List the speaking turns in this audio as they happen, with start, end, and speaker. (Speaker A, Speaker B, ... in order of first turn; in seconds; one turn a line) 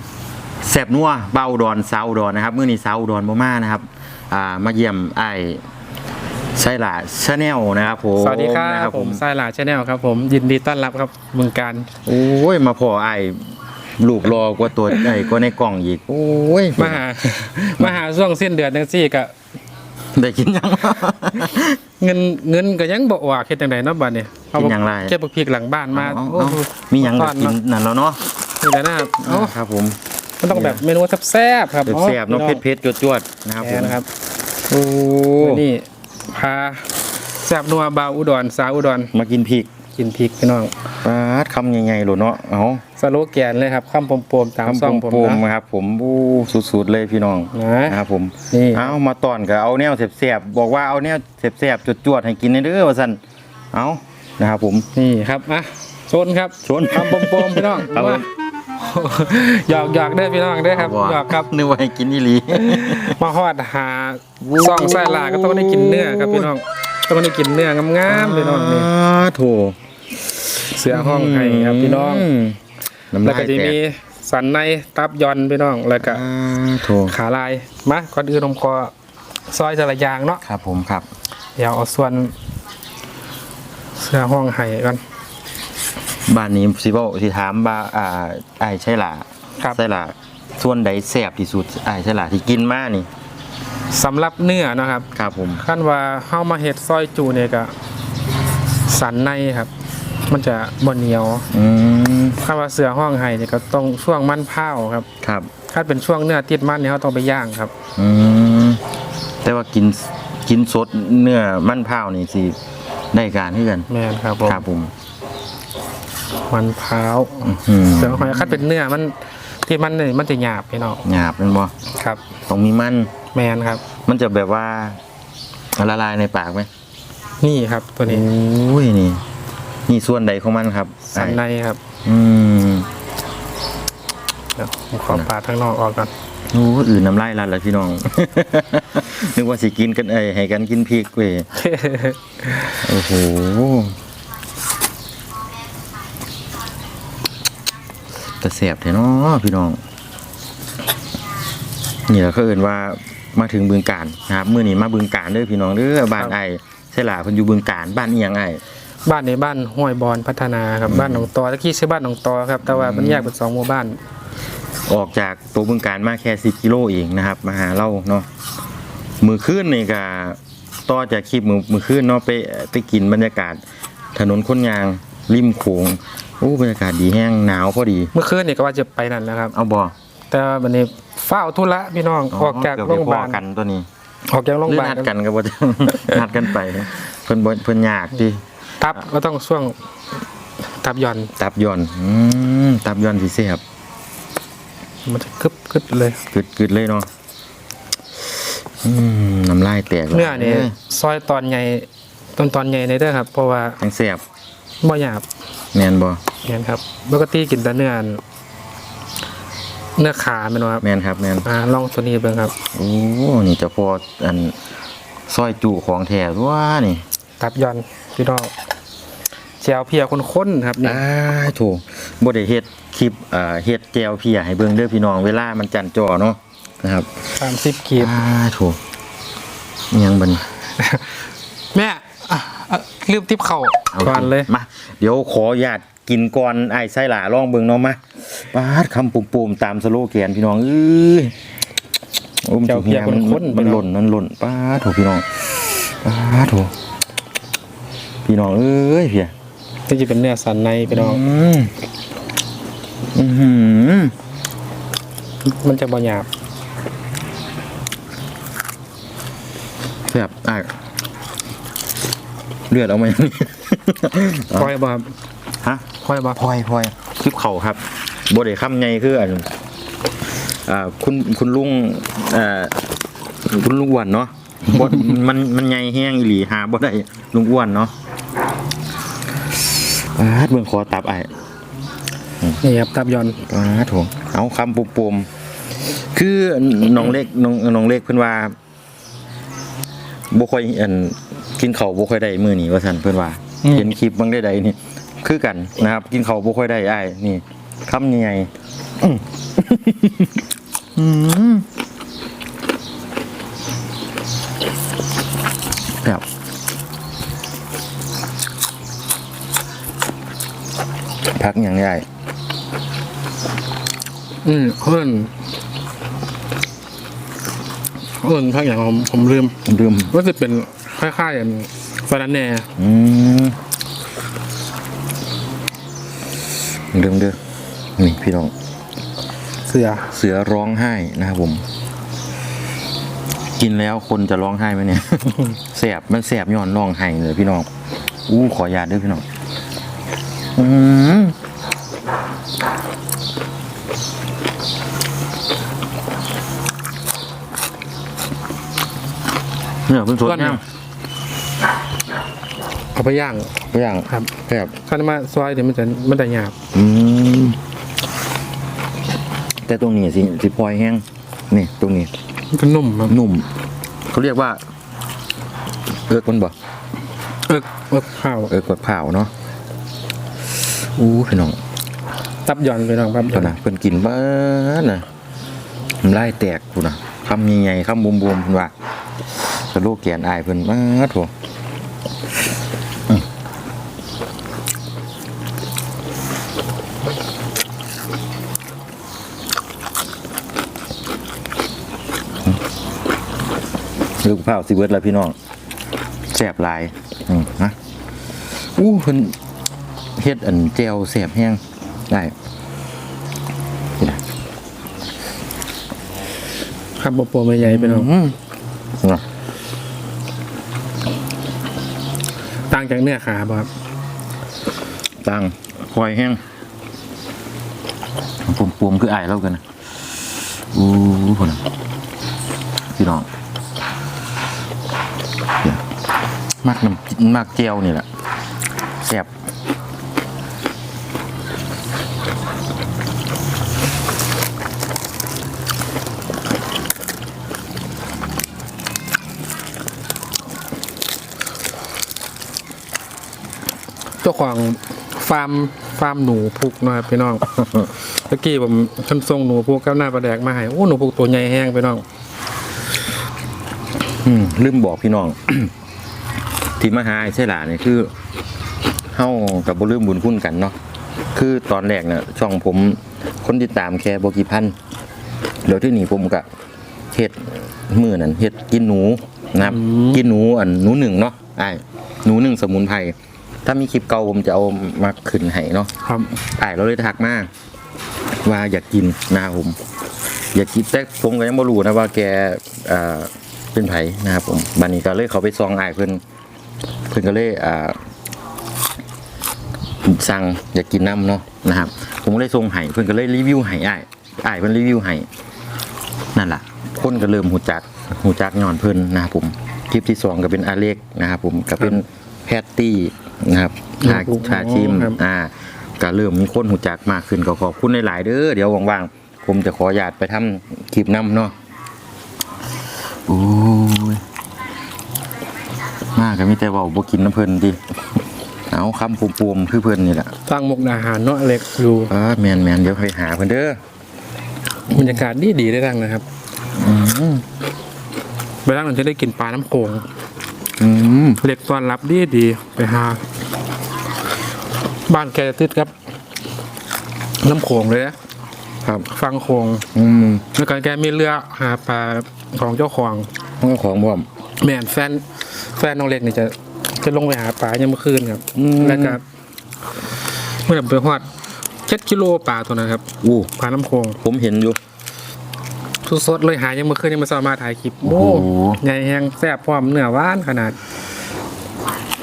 Speaker A: 0.6-5.6
Speaker A: 6.5-9.2
Speaker B: 8.2-11.9
Speaker A: 12.0-13.3
Speaker A: 14.0-17.0
Speaker B: 14.9-15.3
Speaker B: 16.8-19.3
Speaker A: 20.1-21.8
Speaker B: 22.0-27.6
Speaker A: 24.5-25.1
Speaker A: 25.9-28.2
Speaker B: 28.5-29.6
Speaker A: 29.2-30.0
Speaker B: 30.4-32.6
Speaker A: 30.5-30.8
Speaker A: 31.9-34.0
Speaker B: 33.6-34.0
Speaker A: 34.7-35.6
Speaker B: 35.4-39.1
Speaker A: 39.1-39.7
Speaker B: 39.9-40.7
Speaker A: 41.0-42.8
Speaker B: 43.0-45.4
Speaker A: 44.6-53.2
Speaker B: 47.5-48.0
Speaker B: 48.5-49.0
Speaker A: 53.7-54.9
Speaker B: 54.9-58.2
Speaker A: 56.6-58.2
Speaker B: 58.7-61.5
Speaker A: 60.7-63.2
Speaker B: 62.5-68.9
Speaker A: 64.4-66.5
Speaker A: 68.1-69.8
Speaker A: 70.4-72.6
Speaker B: 70.7-72.3
Speaker A: 73.1-73.8
Speaker B: 73.2-76.2
Speaker A: 76.0-77.1
Speaker B: 76.9-78.9
Speaker B: 79.5-80.4
Speaker A: 80.4-81.0
Speaker B: 81.6-82.3
Speaker B: 84.0-85.0
Speaker A: 86.3-93.1
Speaker B: 93.9-97.7
Speaker A: 95.1-95.6
Speaker B: 98.9-99.7
Speaker B: 100.3-101.5
Speaker A: 101.5-102.4
Speaker B: 102.4-105.1
Speaker A: 105.2-105.5
Speaker B: 105.7-107.7
Speaker A: 108.0-108.8
Speaker A: 109.4-112.5
Speaker A: 113.1-113.9
Speaker B: 113.9-114.6
Speaker A: 114.4-114.9
Speaker B: 116.5-121.0
Speaker A: 117.4-118.6
Speaker A: 121.0-121.7
Speaker A: 122.5-123.1
Speaker B: 123.3-123.8
Speaker A: 124.0-125.0
Speaker A: 125.8-126.7
Speaker B: 127.4-128.3
Speaker A: 128.1-129.2
Speaker A: 129.9-131.4
Speaker B: 131.1-131.8
Speaker A: 132.0-132.9
Speaker B: 134.6-136.1
Speaker A: 136.5-141.5
Speaker B: 141.6-142.8
Speaker A: 142.7-143.9
Speaker A: 148.4-149.8
Speaker A: 152.1-158.6
Speaker B: 159.0-164.0
Speaker A: 160.9-161.3
Speaker A: 162.6-163.3
Speaker A: 164.9-168.2
Speaker A: 169.2-173.6
Speaker A: 174.1-178.1
Speaker B: 178.1-179.5
Speaker A: 179.5-179.9
Speaker B: 180.3-183.4
Speaker A: 182.3-183.9
Speaker B: 184.3-185.1
Speaker A: 184.7-188.4
Speaker B: 188.8-189.8
Speaker B: 190.8-191.3
Speaker A: 191.4-193.6
Speaker B: 195.1-196.2
Speaker A: 196.3-197.1
Speaker A: 198.8-200.8
Speaker B: 200.1-203.8
Speaker A: 203.8-204.2
Speaker B: 204.8-205.2
Speaker A: 205.7-206.2
Speaker B: 206.4-208.2
Speaker B: 210.0-210.8
Speaker A: 210.8-211.5
Speaker B: 211.4-212.5
Speaker A: 212.7-214.5
Speaker A: 215.3-217.0
Speaker B: 217.4-218.5
Speaker B: 219.6-221.0
Speaker A: 220.8-227.3
Speaker B: 227.4-228.1
Speaker A: 227.9-228.8
Speaker A: 229.9-230.4
Speaker B: 230.8-234.5
Speaker A: 233.9-241.3
Speaker A: 242.4-246.7
Speaker B: 242.7-243.9
Speaker A: 248.2-249.3
Speaker B: 249.9-251.2
Speaker A: 250.9-251.7
Speaker A: 253.1-254.1
Speaker B: 255.4-256.3
Speaker A: 260.1-260.7
Speaker A: 262.7-264.7
Speaker B: 264.5-265.1
Speaker A: 265.6-269.5
Speaker B: 266.0-266.4
Speaker A: 270.6-272.8
Speaker A: 273.4-277.9
Speaker A: 280.1-281.3
Speaker B: 282.6-283.4
Speaker A: 283.4-285.3
Speaker A: 285.9-288.5
Speaker A: 290.3-300.4
Speaker B: 293.6-293.9
Speaker A: 300.9-301.6
Speaker A: 311.4-312.0
Speaker B: 314.4-315.3
Speaker B: 318.2-319.6
Speaker A: 319.6-320.1
Speaker B: 320.1-322.7
Speaker A: 322.8-323.6
Speaker A: 326.9-327.4
Speaker A: 328.0-328.5
Speaker B: 329.6-330.1
Speaker A: 330.1-331.6
Speaker A: 333.6-337.7
Speaker A: 338.3-339.2
Speaker A: 340.6-341.4
Speaker A: 349.9-350.6
Speaker B: 350.2-350.6
Speaker B: 352.9-353.5
Speaker A: 353.7-354.8
Speaker B: 354.9-356.6
Speaker A: 356.7-357.6
Speaker A: 359.7-362.1
Speaker B: 362.5-363.2
Speaker A: 363.1-363.5
Speaker A: 364.1-364.6
Speaker A: 366.1-366.5
Speaker B: 367.5-368.5
Speaker A: 368.5-369.3
Speaker A: 371.0-371.6
Speaker B: 372.4-373.5
Speaker A: 373.3-375.1
Speaker A: 376.0-378.7
Speaker A: 379.5-381.3
Speaker A: 394.2-395.3
Speaker A: 396.3-397.7
Speaker A: 398.8-399.3
Speaker A: 400.2-402.3
Speaker B: 407.0-408.1
Speaker A: 407.6-408.4
Speaker B: 412.7-413.7
Speaker A: 415.2-416.4
Speaker A: 418.4-419.6
Speaker A: 420.7-421.6
Speaker A: 422.9-423.3
Speaker A: 426.6-428.0
Speaker A: 429.0-429.3
Speaker B: 444.2-447.5
Speaker B: 448.1-452.0
Speaker A: 454.2-455.7
Speaker A: 456.8-458.1
Speaker A: 459.1-460.7
Speaker A: 461.3-464.7
Speaker A: 465.6-466.4
Speaker A: 467.1-477.5
Speaker B: 469.6-470.2
Speaker B: 476.0-476.3
Speaker A: 478.4-479.8
Speaker A: 480.5-486.2
Speaker A: 487.1-488.0
Speaker A: 490.0-495.3
Speaker A: 496.3-511.5
Speaker B: 504.0-505.2
Speaker A: 513.3-514.2
Speaker A: 516.1-517.8
Speaker A: 518.7-520.3
Speaker B: 520.5-522.1
Speaker A: 522.1-523.8
Speaker B: 524.9-526.2
Speaker A: 526.8-527.4
Speaker B: 528.6-530.0
Speaker A: 530.8-531.4
Speaker B: 531.4-533.2
Speaker B: 535.1-535.9
Speaker B: 537.4-538.1
Speaker A: 538.8-539.1
Speaker B: 539.1-539.8
Speaker A: 539.9-540.5
Speaker B: 540.5-543.3
Speaker A: 543.6-544.2
Speaker B: 544.6-549.2
Speaker A: 548.5-549.2
Speaker B: 550.6-551.3
Speaker B: 551.9-553.0
Speaker A: 553.2-553.5
Speaker B: 553.6-554.2
Speaker A: 554.2-554.8
Speaker B: 556.0-560.8
Speaker A: 558.0-558.8